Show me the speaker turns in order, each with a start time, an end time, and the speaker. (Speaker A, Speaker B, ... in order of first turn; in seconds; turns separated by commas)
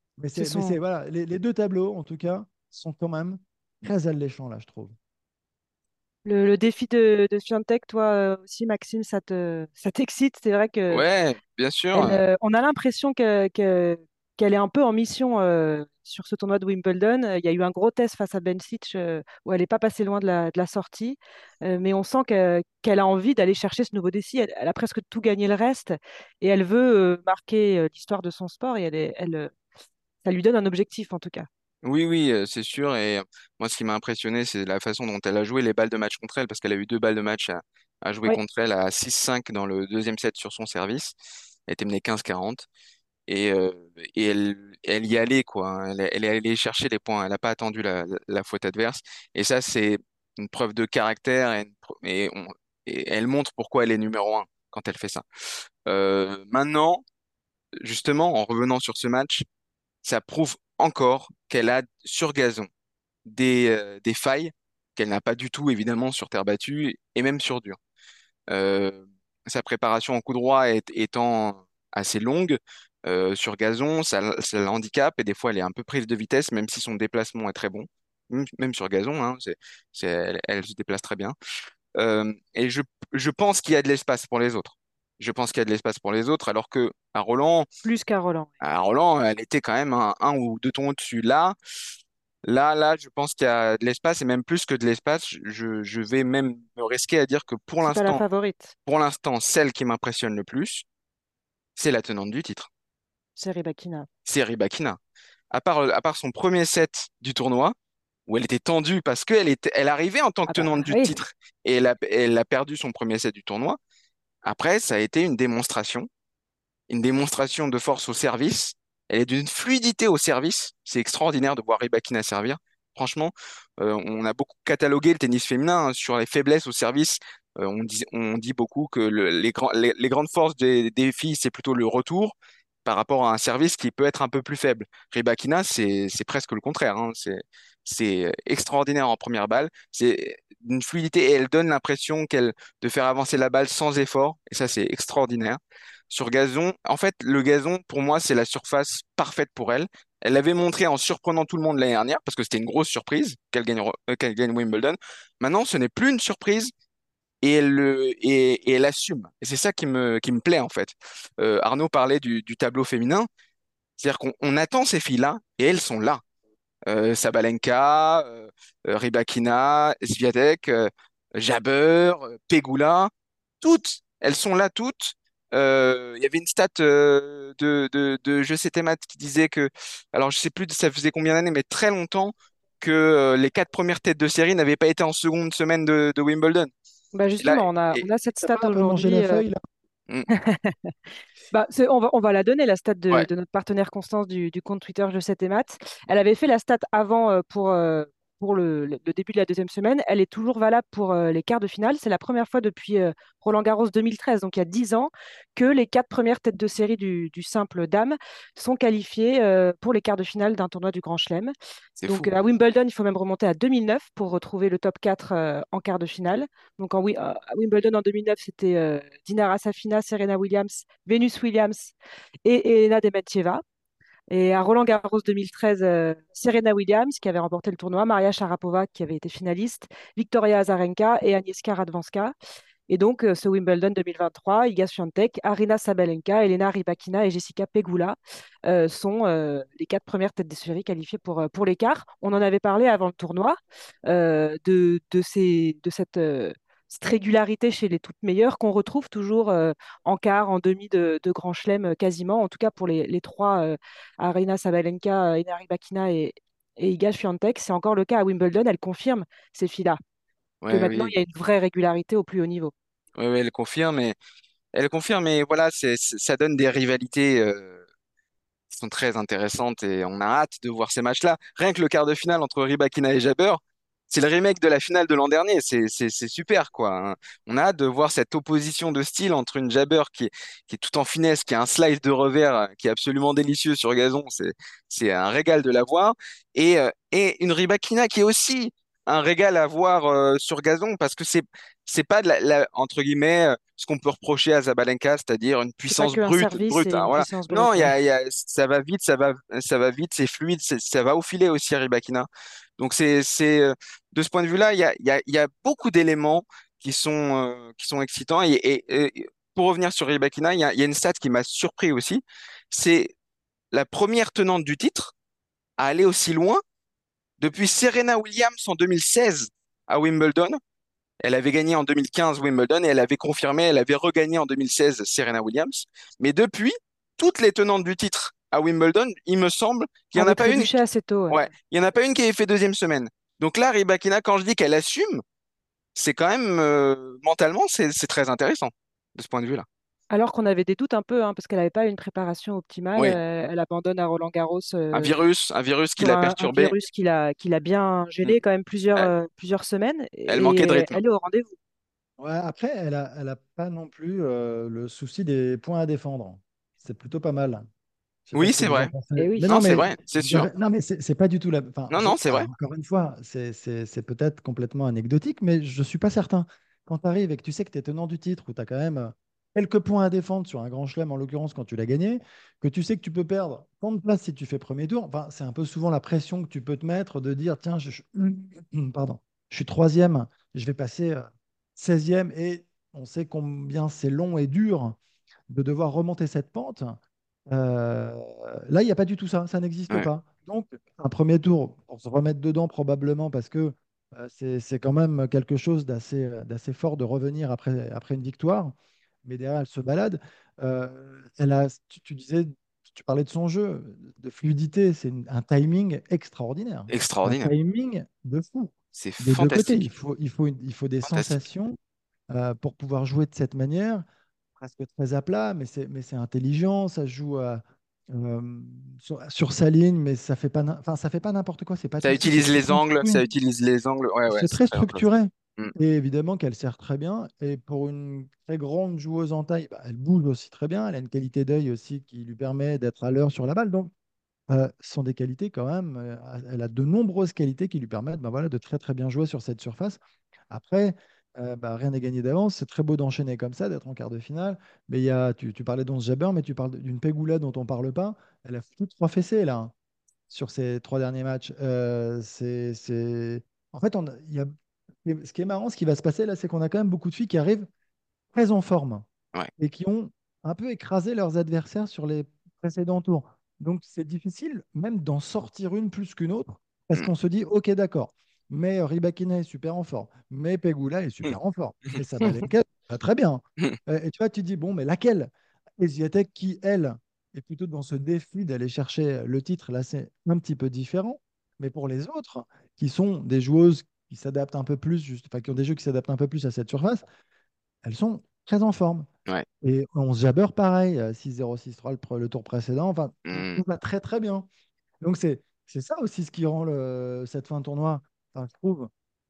Speaker A: 0.2-4.9, Speaker B: 0.4-0.8, Speaker B: 6.2-11.0, Speaker C: 10.9-12.2, Speaker B: 11.9-29.6, Speaker B: 30.2-31.5, Speaker C: 31.8-41.1, Speaker C: 41.7-42.7, Speaker C: 43.3-55.2, Speaker C: 55.9-57.0, Speaker C: 57.8-59.4, Speaker C: 60.0-62.7, Speaker C: 63.2-67.8, Speaker C: 68.5-81.3, Speaker C: 82.0-87.7, Speaker B: 87.8-88.5, Speaker C: 88.6-91.5, Speaker C: 92.4-98.2, Speaker B: 97.8-98.7, Speaker C: 98.8-100.8, Speaker C: 101.8-102.7, Speaker B: 103.3-104.1, Speaker C: 104.2-105.0, Speaker C: 105.5-107.7, Speaker C: 108.3-113.8, Speaker B: 110.5-111.1, Speaker C: 114.4-116.1, Speaker C: 116.9-145.6, Speaker C: 146.1-156.7, Speaker C: 157.4-163.3, Speaker C: 164.0-166.2, Speaker C: 166.9-186.7, Speaker B: 187.1-189.4, Speaker C: 187.4-188.1, Speaker A: 188.4-189.6, Speaker B: 190.3-190.9, Speaker B: 191.5-211.5, Speaker C: 212.0-212.3, Speaker B: 212.1-221.9, Speaker B: 222.4-223.6, Speaker B: 224.3-232.3, Speaker B: 232.9-260.0, Speaker C: 260.6-261.1, Speaker B: 260.7-262.7, Speaker C: 263.1-264.2, Speaker C: 264.7-267.8, Speaker C: 268.7-302.3, Speaker B: 295.9-297.9, Speaker C: 302.8-313.1, Speaker C: 313.7-315.1, Speaker C: 315.8-316.6, Speaker C: 317.4-320.6, Speaker C: 321.2-330.8, Speaker B: 330.1-331.4, Speaker C: 331.3-335.2, Speaker C: 335.9-339.6, Speaker B: 340.1-345.1, Speaker C: 344.9-346.8, Speaker B: 346.0-351.5, Speaker C: 350.3-351.0, Speaker A: 352.2-357.7, Speaker A: 358.3-385.0, Speaker C: 358.3-358.9, Speaker B: 359.1-359.5, Speaker C: 359.4-360.5, Speaker C: 361.9-362.5, Speaker A: 385.5-411.8, Speaker C: 406.9-407.5, Speaker C: 408.9-409.9, Speaker C: 411.0-411.4, Speaker A: 412.3-414.0, Speaker A: 414.6-423.2, Speaker C: 422.0-425.0, Speaker A: 424.3-433.9, Speaker A: 434.5-449.7, Speaker A: 450.3-454.5, Speaker A: 455.0-457.7, Speaker A: 458.3-459.1, Speaker A: 459.6-487.0, Speaker C: 471.9-472.4, Speaker A: 487.8-489.1, Speaker A: 489.6-494.5, Speaker C: 493.3-493.6, Speaker A: 495.0-498.9